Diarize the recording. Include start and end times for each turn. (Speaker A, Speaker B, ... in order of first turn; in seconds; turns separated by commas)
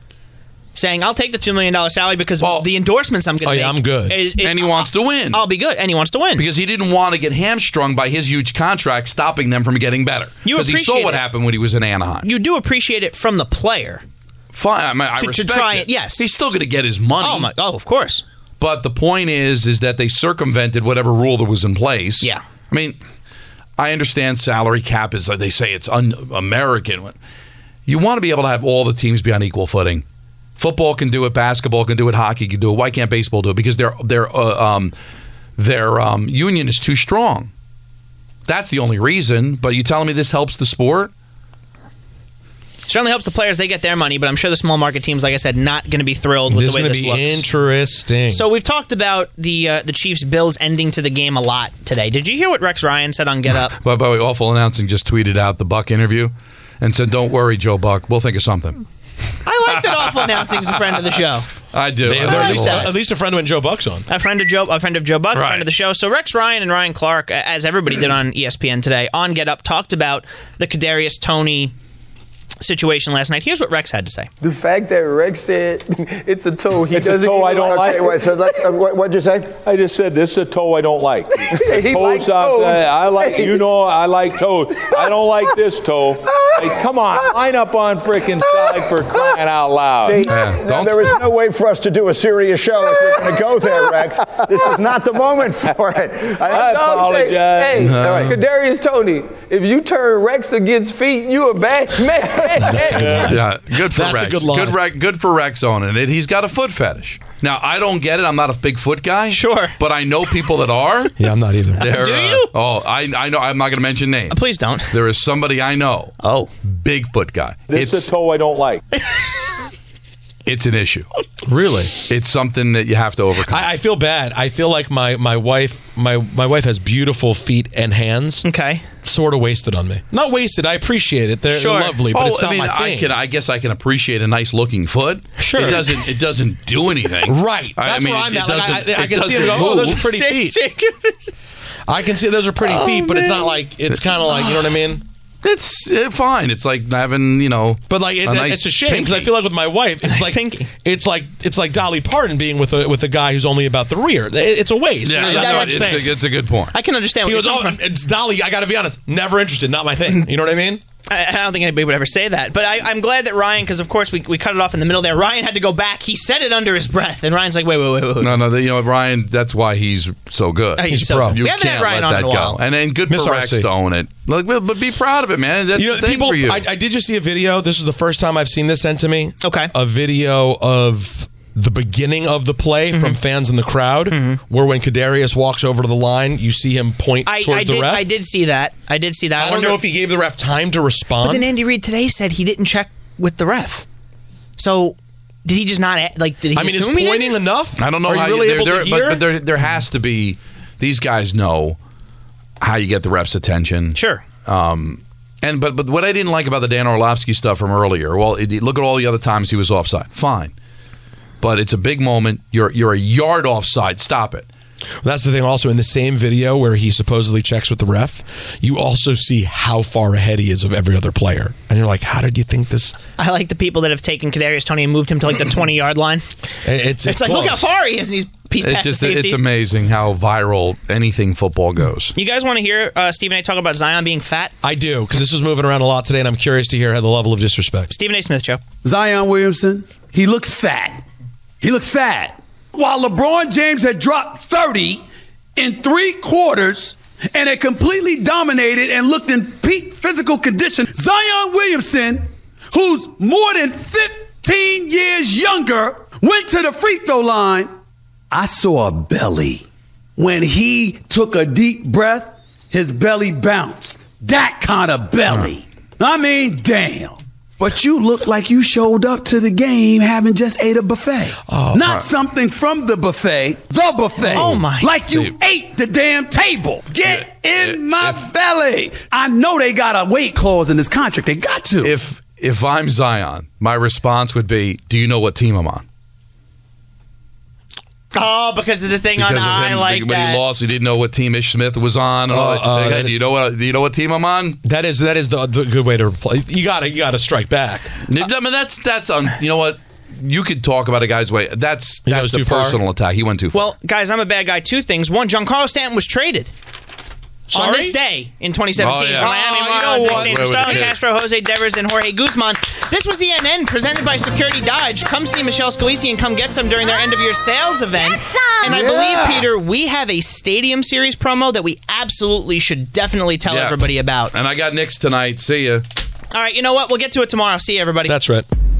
Speaker A: 0.7-6.5, Speaker B: 2.4-2.7, Speaker C: 3.4-4.2, Speaker B: 4.4-5.4, Speaker B: 6.3-12.3, Speaker A: 10.4-11.2, Speaker A: 12.2-14.0, Speaker B: 14.5-17.5, Speaker A: 15.2-16.2, Speaker A: 17.2-18.2, Speaker B: 18.6-23.0, Speaker B: 23.8-27.1, Speaker B: 27.9-30.0, Speaker B: 30.6-34.9, Speaker B: 35.6-37.5, Speaker B: 38.5-41.1, Speaker A: 42.9-47.4, Speaker C: 46.5-48.5, Speaker A: 48.3-53.7, Speaker B: 53.7-58.9, Speaker A: 59.4-61.5, Speaker B: 59.8-60.6, Speaker B: 61.7-62.9, Speaker C: 62.0-64.1, Speaker A: 62.2-62.9, Speaker A: 64.1-71.7, Speaker B: 65.3-65.7, Speaker A: 72.6-74.3, Speaker D: 74.4-79.6, Speaker E: 76.9-78.3, Speaker E: 79.6-90.3, Speaker D: 81.5-83.6, Speaker D: 84.8-85.2, Speaker D: 86.4-86.7, Speaker D: 88.7-89.4, Speaker D: 90.0-103.3, Speaker B: 90.3-91.2, Speaker E: 94.4-94.8, Speaker E: 96.4-98.4, Speaker B: 97.8-98.4, Speaker C: 102.5-104.8, Speaker E: 102.9-103.3, Speaker B: 103.2-111.2, Speaker A: 109.3-109.8, Speaker C: 111.2-111.8, Speaker A: 111.8-112.5, Speaker B: 111.8-114.4, Speaker A: 114.3-115.0, Speaker B: 114.9-118.1, Speaker A: 116.2-116.5, Speaker E: 117.7-118.8, Speaker B: 120.5-121.1, Speaker C: 121.4-122.0, Speaker B: 122.0-123.7, Speaker C: 123.4-128.4, Speaker A: 128.4-128.8, Speaker C: 129.0-133.1, Speaker A: 131.5-132.0, Speaker B: 132.1-140.0, Speaker C: 135.4-136.0, Speaker C: 137.2-140.6, Speaker A: 139.5-141.3, Speaker C: 141.9-145.0, Speaker A: 142.6-143.5, Speaker B: 145.4-149.3, Speaker C: 147.9-156.2, Speaker A: 150.0-150.7, Speaker B: 155.0-156.7, Speaker A: 155.2-156.2, Speaker A: 156.7-157.8, Speaker C: 157.2-160.8, Speaker A: 161.1-168.4, Speaker B: 168.2-176.6, Speaker A: 170.8-172.6, Speaker C: 170.9-171.4, Speaker C: 173.1-173.7, Speaker C: 175.7-188.1, Speaker A: 179.4-179.7, Speaker A: 182.9-183.2, Speaker A: 184.1-184.4, Speaker A: 187.2-189.8, Speaker C: 189.4-191.5, Speaker A: 191.2-193.8, Speaker A: 194.6-197.4, Speaker C: 196.5-199.2, Speaker B: 197.8-201.8, Speaker B: 202.6-210.5, Speaker A: 203.9-204.2, Speaker B: 211.4-214.5, Speaker C: 215.0-223.0, Speaker A: 223.2-226.2, Speaker C: 226.6-227.7, Speaker A: 227.0-229.4, Speaker B: 228.6-232.1, Speaker A: 232.1-234.5, Speaker C: 234.6-237.9, Speaker A: 237.9-238.6, Speaker F: 238.8-241.0, Speaker F: 241.6-245.0, Speaker F: 245.6-257.7, Speaker F: 258.3-259.6, Speaker F: 260.2-281.9, Speaker C: 271.4-271.8, Speaker B: 274.2-274.6, Speaker A: 274.3-274.9, Speaker B: 281.8-285.8, Speaker A: 288.1-290.4, Speaker B: 289.1-294.6, Speaker C: 292.3-293.1, Speaker C: 294.6-298.0, Speaker B: 298.1-303.6, Speaker C: 302.1-302.8, Speaker A: 303.5-306.5, Speaker C: 307.5-308.0, Speaker A: 307.5-324.3, Speaker B: 308.8-311.0, Speaker C: 309.2-310.8, Speaker B: 323.5-325.8, Speaker A: 326.3-328.2, Speaker C: 328.1-328.5